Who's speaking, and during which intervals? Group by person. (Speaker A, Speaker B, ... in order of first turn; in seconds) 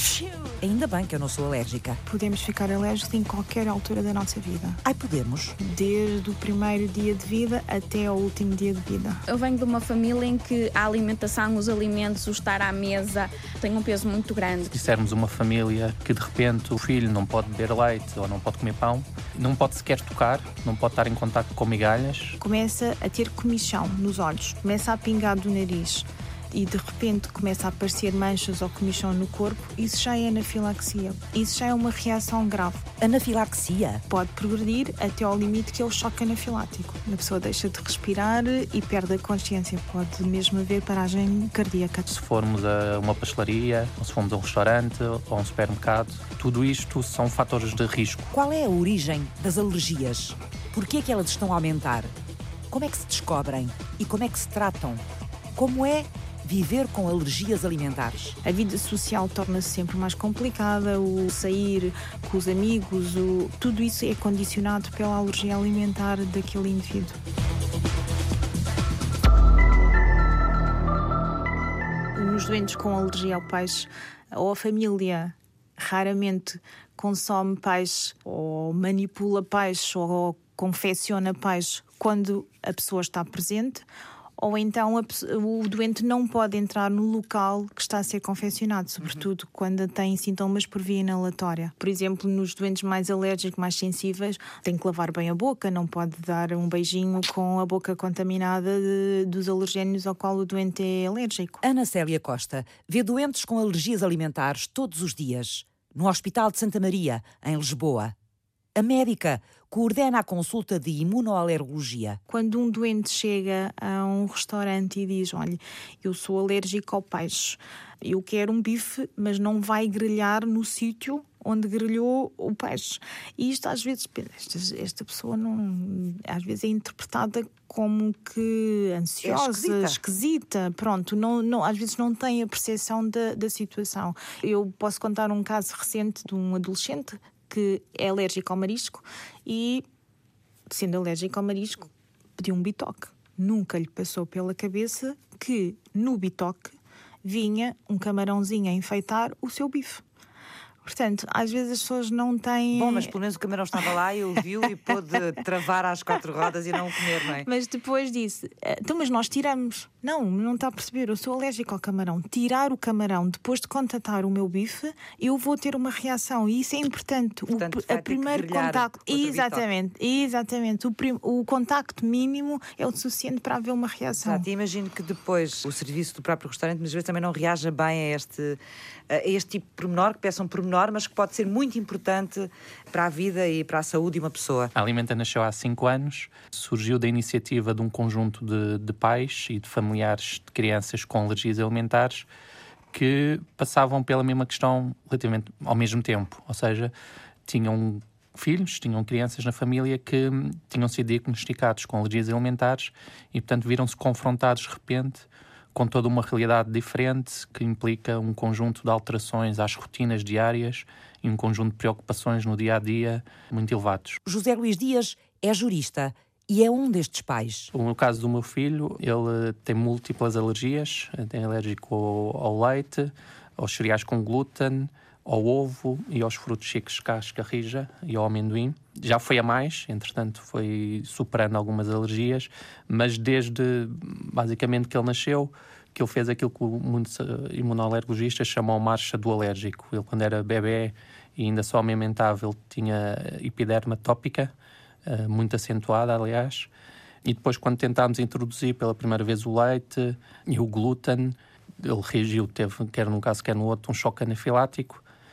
Speaker A: 0.6-2.0, 4.8-5.5, 33.0-34.0, 48.3-52.1, 52.7-55.0, 55.6-58.4, 101.6-108.1, 108.8-112.2, 129.2-130.0, 152.7-157.5, 167.5-169.7, 174.2-178.6, 179.1-184.7, 214.2-217.7
Speaker B: 2.0-4.8, 5.6-9.2, 22.4-32.9, 34.1-42.1, 58.4-67.2, 72.1-83.9, 84.4-101.6, 112.3-139.8, 140.7-150.0, 150.8-153.1, 157.3-174.5
Speaker C: 9.3-14.7
Speaker D: 14.7-22.4, 42.1-48.3, 184.8-192.3, 192.9-196.9, 197.5-214.2, 217.7-244.5, 245.1-246.7, 247.2-255.0